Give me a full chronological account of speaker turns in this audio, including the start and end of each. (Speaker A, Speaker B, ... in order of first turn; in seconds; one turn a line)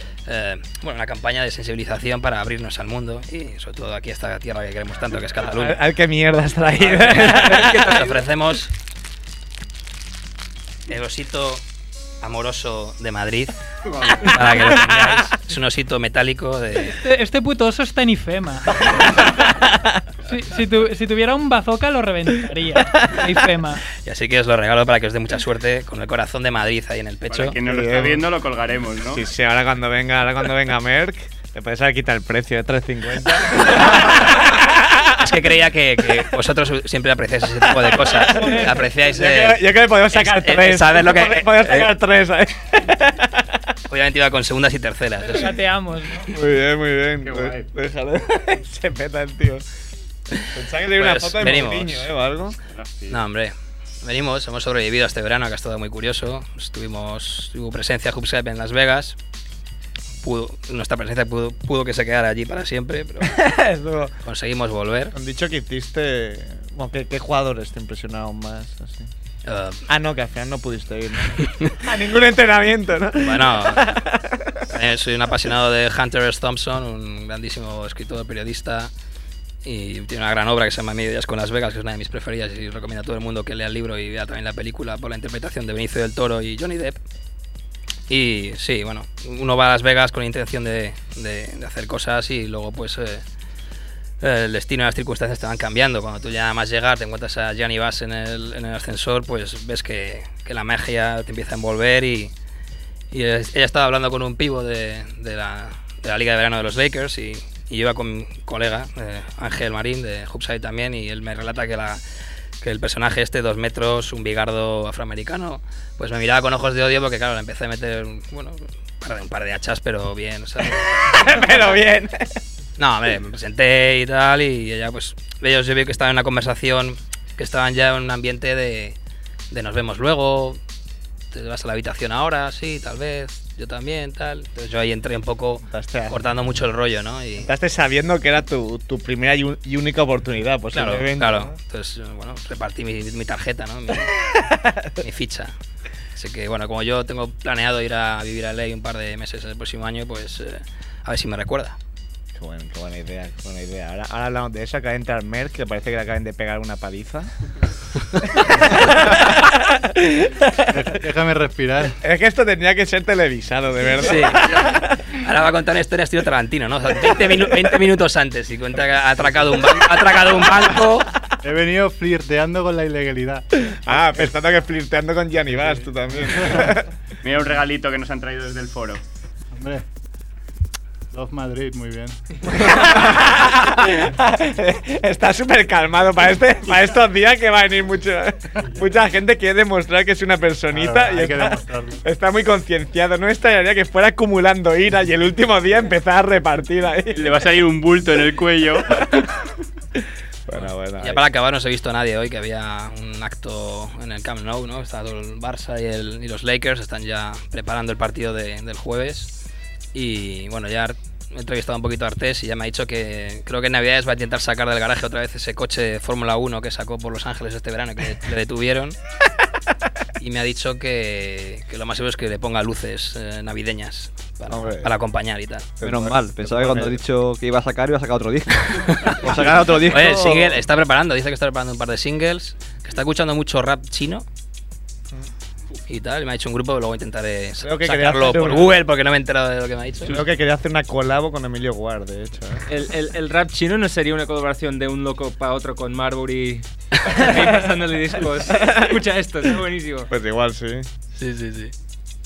Speaker A: 0.3-5.8
Speaker B: 5.5-8.0
Speaker C: 6.9-8.1
Speaker A: 7.3-8.7
Speaker A: 10.9-11.6
Speaker A: 12.2-13.6
Speaker D: 13.9-14.3
Speaker A: 14.2-17.0
Speaker B: 14.5-15.2
Speaker E: 17.0-18.8
Speaker E: 20.3-23.8
Speaker A: 24.0-27.6
Speaker D: 27.3-29.2
Speaker B: 27.6-28.2
Speaker B: 29.1-35.2
Speaker A: 35.1-41.9
Speaker B: 37.8-43.6
Speaker A: 43.9-45.5
Speaker E: 45.2-46.3
Speaker B: 46.3-49.6
Speaker D: 47.2-47.7
Speaker B: 50.5-52.6
Speaker A: 51.0-52.1
Speaker D: 52.7-53.2
Speaker A: 53.1-59.2
Speaker A: 60.2-63.4
Speaker B: 63.2-64.2
Speaker A: 64.2-65.1
Speaker B: 65.1-69.1
Speaker A: 69.5-69.8
Speaker B: 69.9-74.7
Speaker A: 71.5-71.7
Speaker A: 73.2-74.0
Speaker A: 74.7-78.9
Speaker A: 79.7-87.0
Speaker A: 88.1-93.2
Speaker A: 94.2-102.3
Speaker A: 103.1-112.0
Speaker A: 112.6-121.7
Speaker B: 121.0-122.4
Speaker A: 122.8-129.0
Speaker A: 129.5-130.6
Speaker A: 131.3-137.5
Speaker B: 135.6-136.3
Speaker B: 137.4-141.6
Speaker A: 140.7-144.3
Speaker A: 145.0-145.5
Speaker A: 146.2-151.8
Speaker B: 152.3-157.3
Speaker B: 158.4-160.8
Speaker F: 160.7-162.0
Speaker B: 162.0-165.0
Speaker A: 164.0-171.1
Speaker B: 170.0-171.0
Speaker F: 171.4-173.5
Speaker B: 173.7-176.9
Speaker D: 177.2-179.0
Speaker F: 179.5-179.8
Speaker F: 181.1-182.2
Speaker B: 182.4-197.4
Speaker F: 190.7-192.0
Speaker D: 197.1-199.3
Speaker B: 200.5-201.2
Speaker A: 201.0-209.3
Speaker A: 209.9-219.0
Speaker A: 220.2-225.7
Speaker B: 224.5-224.9
Speaker B: 225.8-227.0
Speaker G: 225.8-230.6
Speaker A: 229.0-234.2
Speaker B: 229.2-230.2
Speaker A: 235.9-240.2
Speaker B: 237.6-238.8
Speaker B: 240.0-242.7
Speaker C: 242.7-250.1
Speaker B: 248.6-248.9
Speaker B: 250.1-250.9
Speaker A: 251.2-251.7